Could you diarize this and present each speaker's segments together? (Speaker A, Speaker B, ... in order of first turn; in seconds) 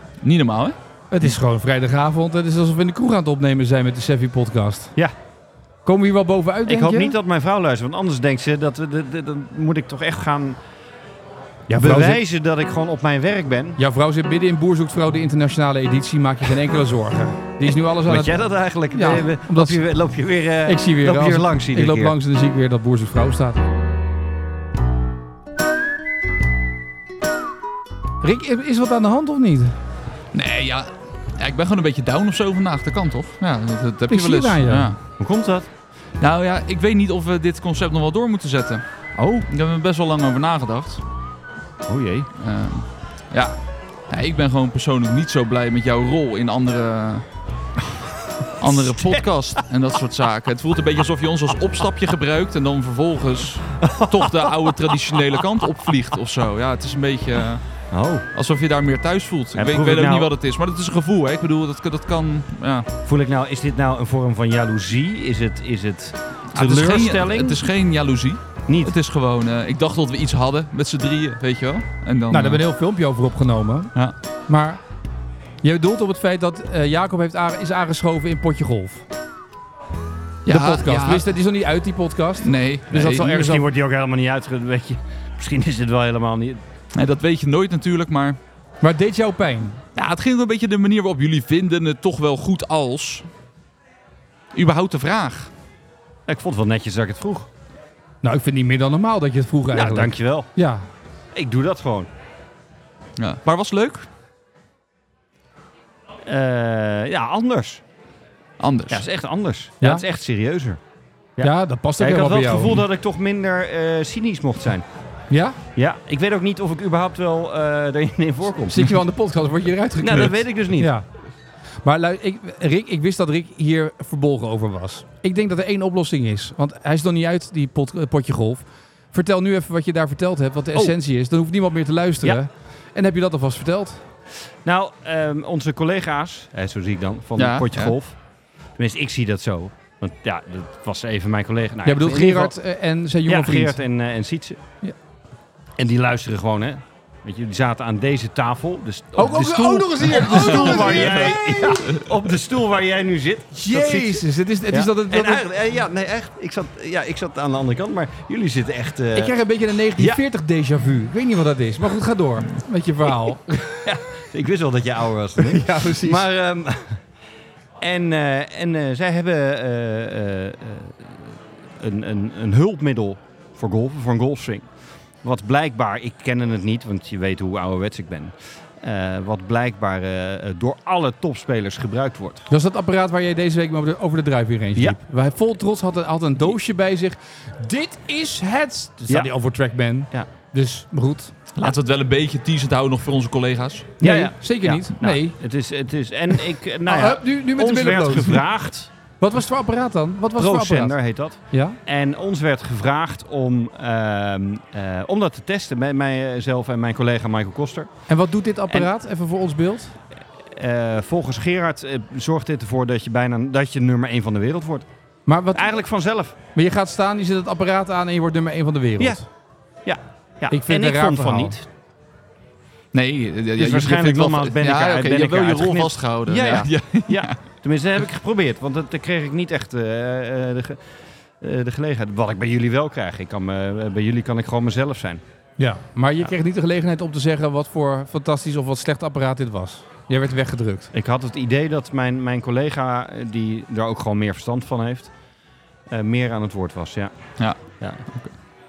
Speaker A: 0.2-0.8, 30.3-35.0, 36.2-38.8, 39.5-41.0, 42.4-43.5, 44.1-47.2, 48.6-57.6, 58.3-62.9, 66.5-72.6, 80.5-81.3, 82.4-83.3, 86.9-88.4, 89.9-93.3, 94.5-95.5, 103.2-104.1, 108.6-109.0, 137.4-137.9, 150.2-152.0, 191.6-193.9, 222.9-227.4, 247.4-248.3
Speaker B: 1.1-4.9, 5.8-7.1, 11.7-12.2, 13.8-18.4, 18.9-19.8, 20.6-23.6, 28.2-29.7, 34.1-34.9, 72.3-73.9, 74.5-74.8, 75.6-79.0, 80.5-83.7, 88.8-89.8, 98.2-100.9, 111.4-112.8, 115.3-115.6, 118.7-121.0, 121.8-134.0, 141.8-143.8, 149.2-151.6, 153.5-155.4, 159.1-163.9, 165.4-166.2, 182.5-191.3, 194.0-195.4, 196.8-198.4, 199.2-201.0, 201.5-201.8, 208.1-210.0, 215.3-215.7, 216.5-219.2, 220.5-221.6, 235.6-240.9
Speaker C: 6.6-10.6, 11.7-13.8, 18.1-22.1, 35.2-35.7, 39.1-39.5, 41.9-42.3, 48.6-49.3, 53.8-54.9, 57.9-58.2, 59.5-60.3, 63.0-67.6, 68.7-68.9, 82.9-86.6, 96.3-97.5, 99.7-100.5, 101.3-102.1, 106.3-107.8, 108.9-110.8, 111.4-114.8, 115.7-118.9, 120.0-120.9, 134.6-138.2, 138.8-142.5, 143.2-144.6, 145.8-159.3, 163.8-167.0, 167.8-174.7, 175.2-182.5, 194.0-198.9, 200.3-207.9, 210.5-214.9, 215.5-216.3, 219.8-221.7, 223.5-230.8, 231.4-235.2, 240.9-245.1, 245.9-247.1, 247.7-248.0